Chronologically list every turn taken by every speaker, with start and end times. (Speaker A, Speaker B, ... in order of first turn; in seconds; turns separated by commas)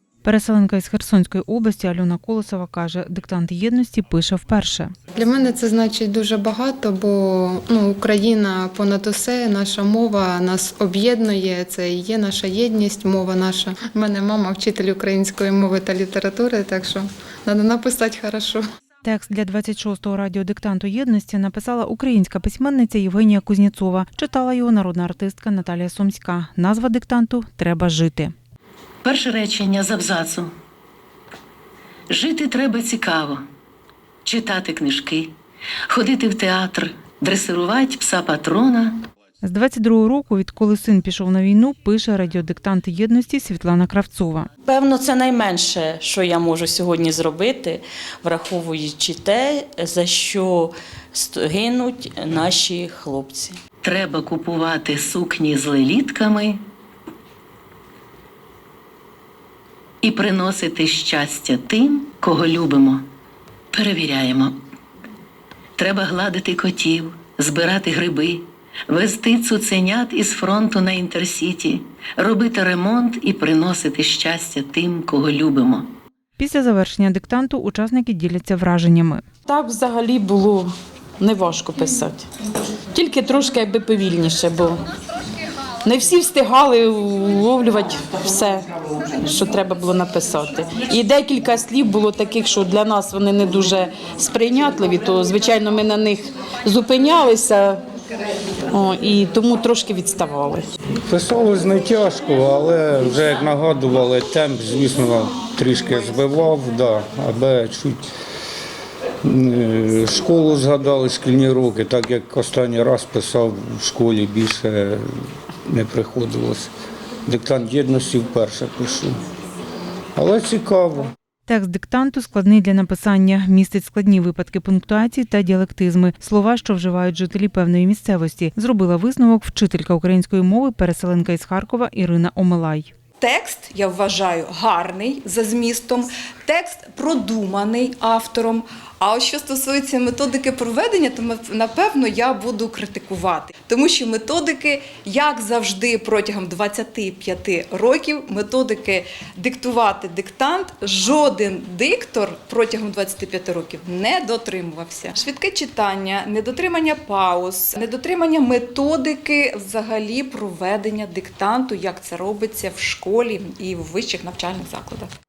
Speaker A: 0.2-4.9, Speaker B: 5.1-18.6, Speaker A: 19.0-28.3, Speaker C: 29.0-30.5, Speaker C: 32.1-33.4, Speaker C: 34.2-35.3, Speaker C: 35.9-39.1, Speaker A: 39.4-44.5, Speaker D: 44.6-53.6, Speaker C: 53.8-56.6, Speaker C: 60.0-63.0, Speaker C: 63.7-64.5, Speaker C: 65.8-75.9, Speaker A: 76.4-79.2, Speaker E: 79.5-82.3, Speaker E: 82.9-84.8, Speaker E: 85.8-97.8, Speaker E: 98.7-100.7, Speaker F: 101.1-108.0, Speaker F: 109.2-115.1, Speaker F: 115.7-116.7, Speaker F: 117.3-119.2, Speaker F: 120.2-121.1, Speaker A: 121.5-132.9, Speaker G: 133.2-165.1